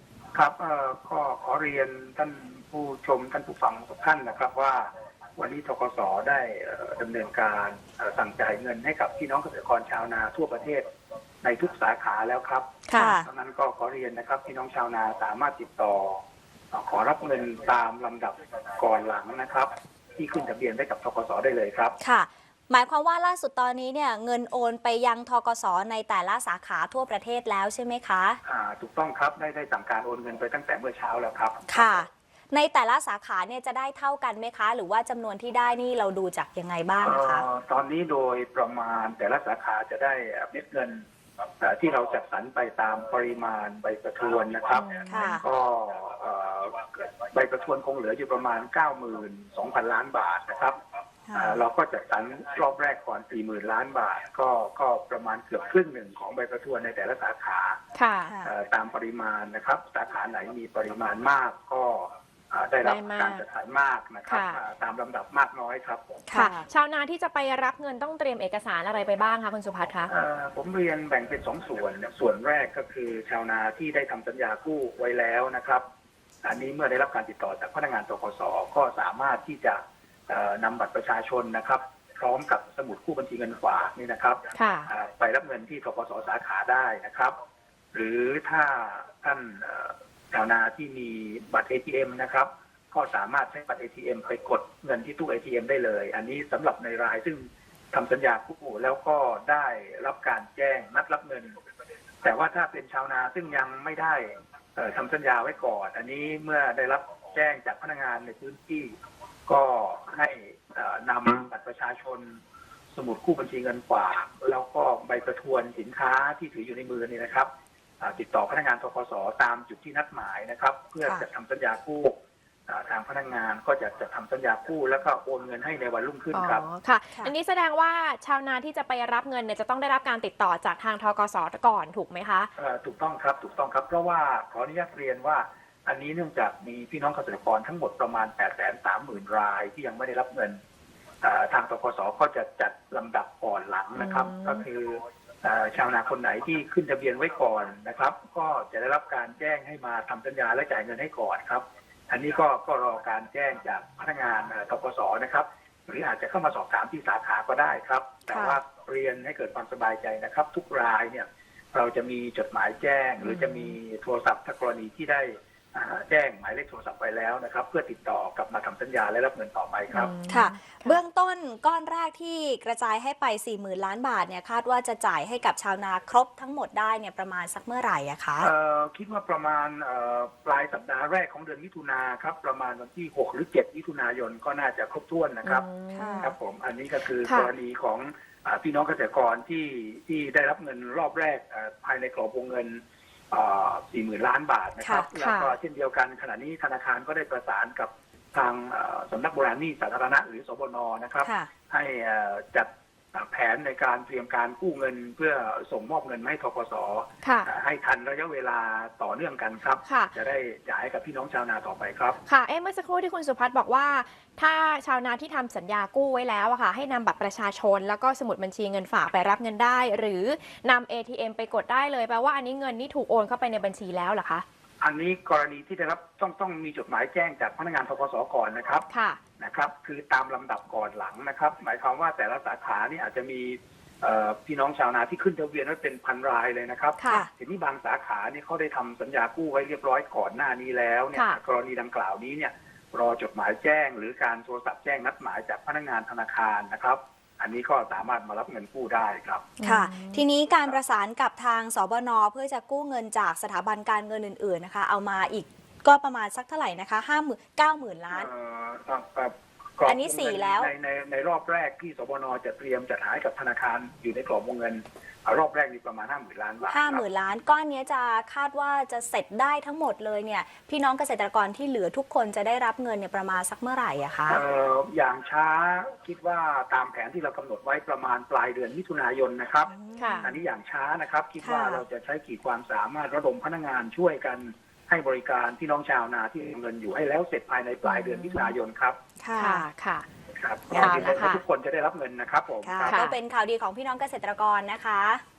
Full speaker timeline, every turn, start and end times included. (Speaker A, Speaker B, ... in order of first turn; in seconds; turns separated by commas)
Speaker A: 0.3-10.9, Speaker A: 11.4-21.9, Speaker B: 12.9-13.2, Speaker C: 12.9-13.3, Speaker C: 22.0-28.4, Speaker A: 28.4-31.9, Speaker C: 31.7-37.5, Speaker A: 37.0-41.0, Speaker A: 41.6-50.8, Speaker B: 44.7-45.4, Speaker C: 45.1-45.4, Speaker C: 51.3-51.6, Speaker A: 51.3-57.8, Speaker B: 57.9-58.3, Speaker C: 58.2-58.5, Speaker A: 58.4-66.2, Speaker B: 62.8-63.4, Speaker B: 64.3-64.6, Speaker C: 66.3-66.6, Speaker B: 66.3-70.1, Speaker A: 70.1-75.8, Speaker A: 76.4-87.3, Speaker B: 84.5-84.9, Speaker A: 87.9-101.6, Speaker A: 102.2-108.9, Speaker A: 109.5-112.4, Speaker A: 112.9-117.5, Speaker A: 118.0-122.2, Speaker A: 122.7-126.6, Speaker B: 126.3-132.5, Speaker A: 132.6-140.6, Speaker A: 141.2-170.1, Speaker B: 144.0-144.6, Speaker C: 158.3-158.6, Speaker B: 163.2-163.8, Speaker B: 169.9-171.0, Speaker C: 170.3-178.5, Speaker A: 178.4-185.7, Speaker B: 185.4-186.3, Speaker C: 185.9-186.3, Speaker A: 186.2-212.2, Speaker B: 187.2-187.5, Speaker C: 194.8-195.1, Speaker B: 195.1-195.6, Speaker C: 201.2-201.5, Speaker B: 207.2-207.5, Speaker B: 209.8-210.1, Speaker B: 212.2-224.4, Speaker A: 224.8-228.8, Speaker B: 228.9-229.2, Speaker A: 229.4-249.5, Speaker B: 237.0-237.3, Speaker B: 241.1-241.4, Speaker B: 249.6-250.2, Speaker C: 249.6-258.3, Speaker A: 250.5-250.7, Speaker A: 258.1-267.0, Speaker C: 259.8-260.7, Speaker C: 266.7-274.4, Speaker A: 274.3-289.0, Speaker C: 279.7-280.3, Speaker B: 280.0-280.3, Speaker C: 281.4-281.8, Speaker C: 287.9-288.5, Speaker C: 289.2-289.6, Speaker B: 289.4-290.1, Speaker A: 290.4-293.0, Speaker C: 290.7-291.2, Speaker B: 290.7-291.4, Speaker C: 292.6-295.2, Speaker B: 292.9-293.2